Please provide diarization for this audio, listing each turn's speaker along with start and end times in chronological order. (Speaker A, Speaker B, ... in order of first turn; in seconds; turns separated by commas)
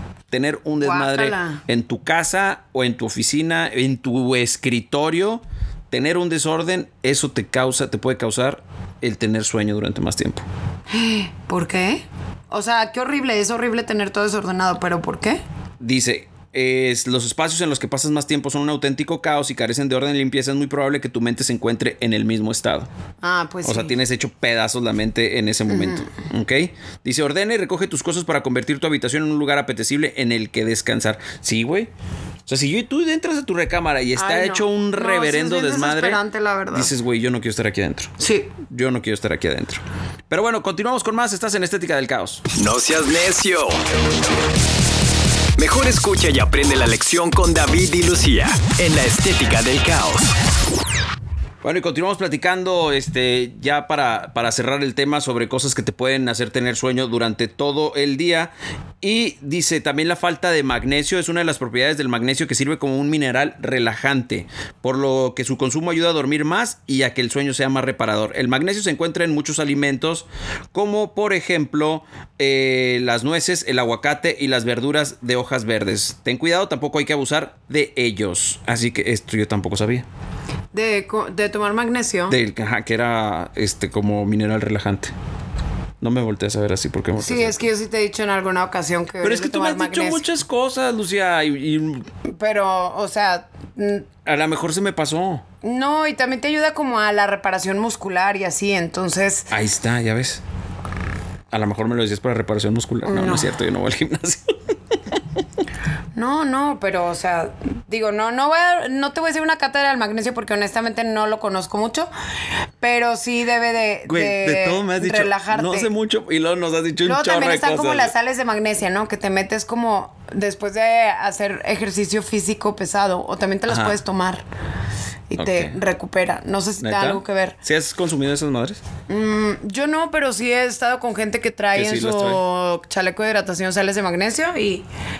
Speaker A: 0.3-10.4, Speaker B: 0.8-1.6, Speaker B: 10.9-15.4, Speaker A: 15.8-22.9, Speaker B: 23.2-24.0, Speaker A: 23.6-31.9, Speaker B: 25.7-26.0, Speaker A: 32.5-42.4, Speaker B: 34.1-36.9, Speaker B: 38.2-38.5, Speaker C: 42.5-43.8, Speaker C: 45.6-50.3, Speaker A: 51.6-80.0, Speaker B: 80.7-82.4, Speaker A: 82.3-85.1, Speaker A: 86.0-87.6, Speaker B: 87.2-90.2, Speaker A: 89.2-92.1, Speaker B: 92.3-94.1, Speaker A: 94.2-95.4, Speaker B: 95.6-99.5, Speaker A: 99.5-100.4, Speaker A: 101.5-104.7, Speaker B: 103.0-103.5, Speaker B: 106.1-112.1, Speaker B: 112.8-115.9, Speaker A: 114.0-118.1, Speaker B: 117.0-124.4, Speaker A: 123.7-124.0, Speaker B: 125.3-127.6, Speaker A: 125.4-125.8, Speaker A: 126.8-128.8, Speaker B: 129.1-134.8, Speaker A: 131.7-132.4